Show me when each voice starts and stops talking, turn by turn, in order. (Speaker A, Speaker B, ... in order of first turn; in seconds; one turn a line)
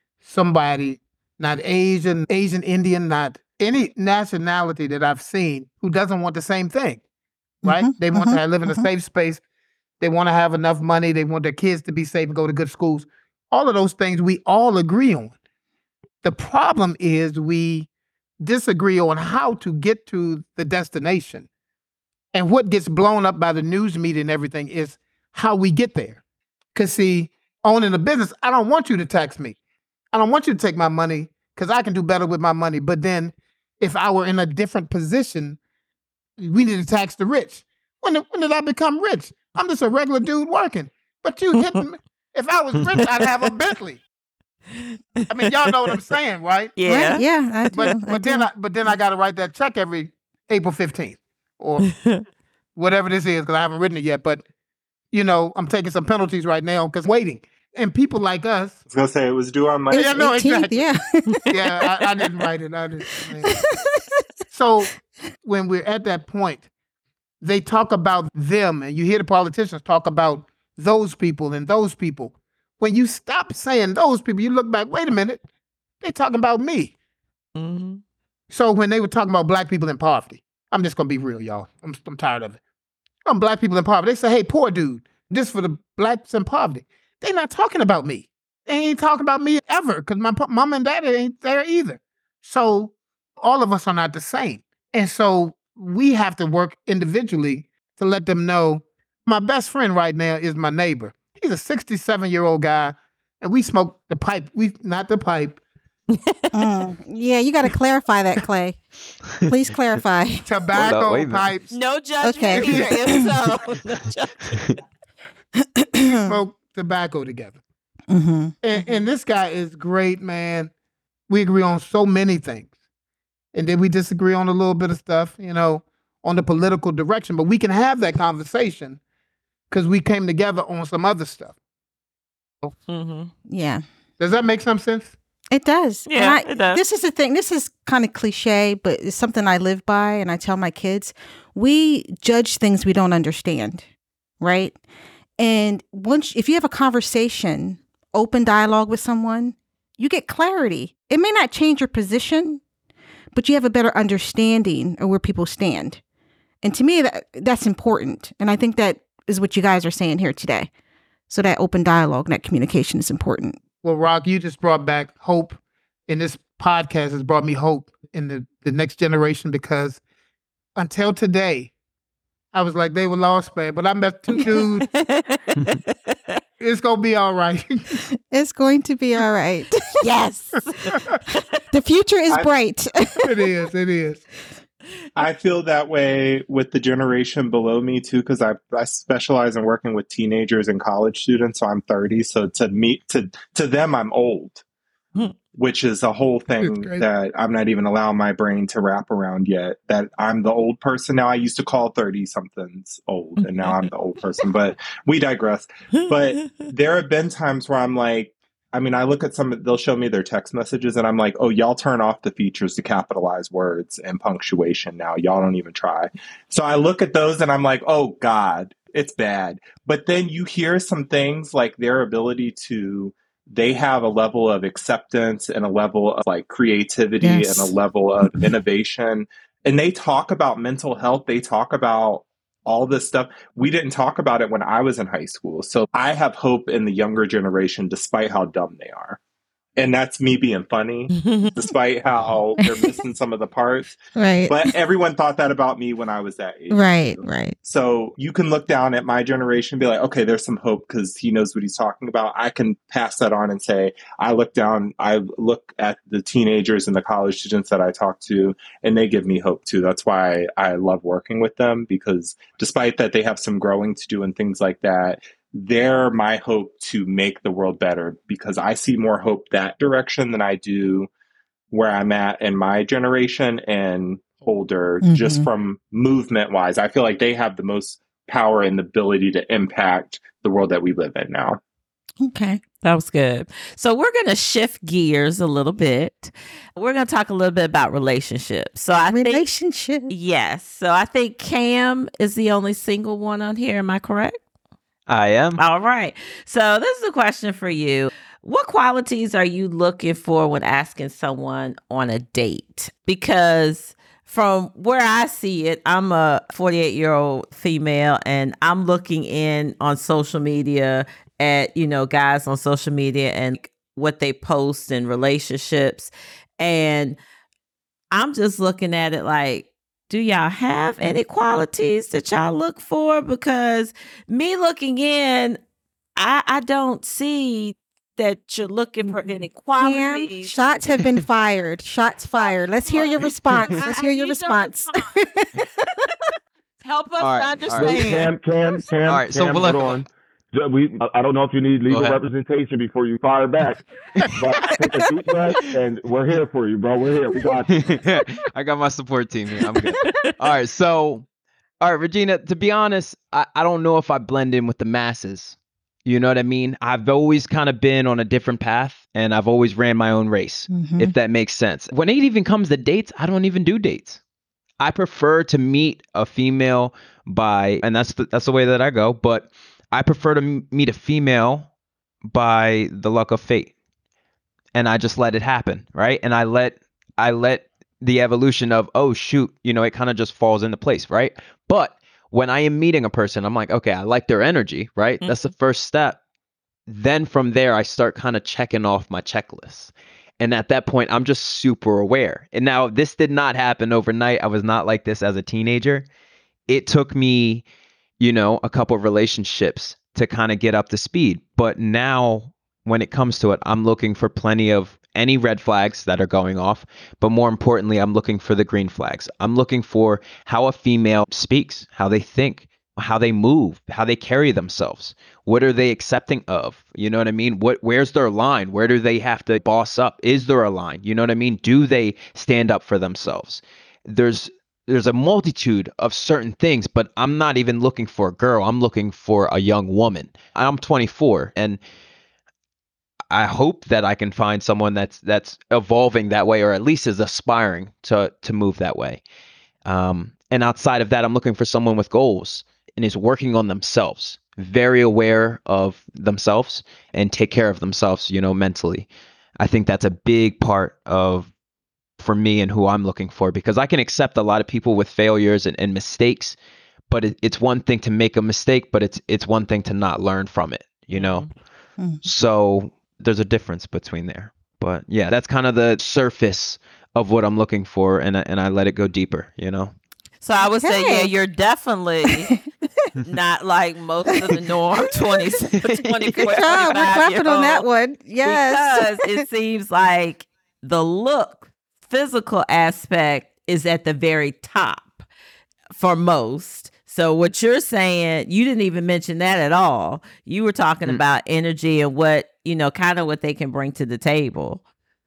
Speaker A: 0.2-7.0
Speaker A: 7.6-9.4
Speaker B: 7.7-8.9
Speaker A: 10.0-15.3
Speaker A: 16.2-17.9
Speaker A: 18.4-21.5
Speaker A: 22.3-26.2
Speaker A: 26.8-29.6
Speaker A: 30.1-35.6
Speaker A: 36.4-44.0
Speaker C: 43.0-43.5
Speaker C: 44.7-46.0
Speaker A: 45.3-46.8
Speaker C: 46.8-47.2
Speaker B: 46.9-48.5
Speaker A: 47.7-51.9
Speaker C: 51.8-52.2
Speaker A: 52.8-54.4
Speaker A: 55.1-58.8
Speaker D: 58.9-60.1
Speaker B: 59.9-61.7
Speaker A: 59.9-60.8
Speaker A: 61.5-63.5
Speaker B: 63.5-64.2
Speaker A: 64.5-64.9
Speaker A: 65.4-66.7
Speaker A: 67.4-75.4
Speaker A: 76.0-76.9
Speaker C: 77.6-78.0
Speaker A: 78.5-82.6
Speaker A: 83.3-105.6
Speaker C: 106.1-106.5
Speaker B: 106.5-108.8
Speaker B: 109.4-110.5
Speaker A: 110.4-111.7
Speaker E: 110.7-111.5
Speaker C: 111.7-114.6
Speaker B: 112.2-113.3
Speaker A: 112.5-113.3
Speaker B: 115.8-116.4
Speaker A: 116.3-117.6
Speaker B: 118.1-118.6
Speaker A: 118.6-120.7
Speaker A: 121.3-122.7
Speaker A: 123.5-129.0
Speaker A: 129.7-131.5
Speaker C: 132.9-133.3
Speaker B: 133.5-133.8
Speaker A: 134.2-135.2
Speaker B: 135.5-143.8
Speaker C: 136.1-136.8
Speaker B: 144.4-144.8
Speaker B: 145.4-152.6
Speaker B: 153.3-156.0
Speaker B: 156.6-160.7
Speaker B: 161.3-163.6
Speaker A: 163.8-170.0
Speaker A: 170.8-171.7
Speaker A: 172.5-174.9
Speaker C: 174.5-176.4
Speaker A: 176.6-178.1
Speaker B: 178.3-180.0
Speaker C: 180.0-181.6
Speaker B: 181.7-183.4
Speaker A: 183.2-184.2
Speaker D: 185.2-194.6
Speaker D: 195.5-239.2
Speaker A: 196.6-197.0
Speaker C: 203.4-203.8
Speaker B: 227.2-227.7
Speaker D: 239.8-271.1
Speaker C: 241.2-241.5
Speaker B: 244.2-244.7
Speaker B: 246.7-247.6
Speaker D: 271.7-281.6
Speaker B: 275.0-275.5
Speaker B: 282.2-282.6
Speaker C: 282.8-289.5
Speaker B: 289.1-290.1
Speaker C: 290.1-294.4
Speaker E: 295.1-295.6
Speaker C: 295.6-317.2
Speaker C: 318.1-325.6
Speaker C: 326.2-330.6
Speaker B: 329.8-335.6
Speaker C: 332.9-335.1
Speaker C: 336.8-338.3
Speaker E: 337.2-338.2
Speaker F: 337.7-347.7
Speaker E: 339.0-340.0
Speaker E: 341.9-342.2
Speaker E: 347.7-351.3
Speaker C: 350.0-350.4
Speaker E: 351.8-364.2
Speaker B: 360.7-361.1
Speaker E: 364.8-371.7
Speaker E: 372.3-373.7
Speaker E: 374.7-386.2
Speaker E: 386.9-396.1
Speaker E: 396.7-397.6
Speaker E: 398.2-431.8
Speaker E: 433.3-439.2
Speaker E: 439.9-449.1
Speaker E: 449.6-451.5
Speaker E: 452.2-456.6
Speaker E: 457.1-461.5
Speaker C: 461.1-461.5
Speaker E: 462.2-469.9
Speaker C: 470.4-472.5
Speaker B: 470.8-471.3
Speaker B: 472.3-472.6
Speaker C: 473.2-477.9
Speaker B: 475.2-475.6
Speaker E: 475.7-477.2
Speaker B: 476.3-479.4
Speaker C: 478.4-485.2
Speaker C: 485.9-494.8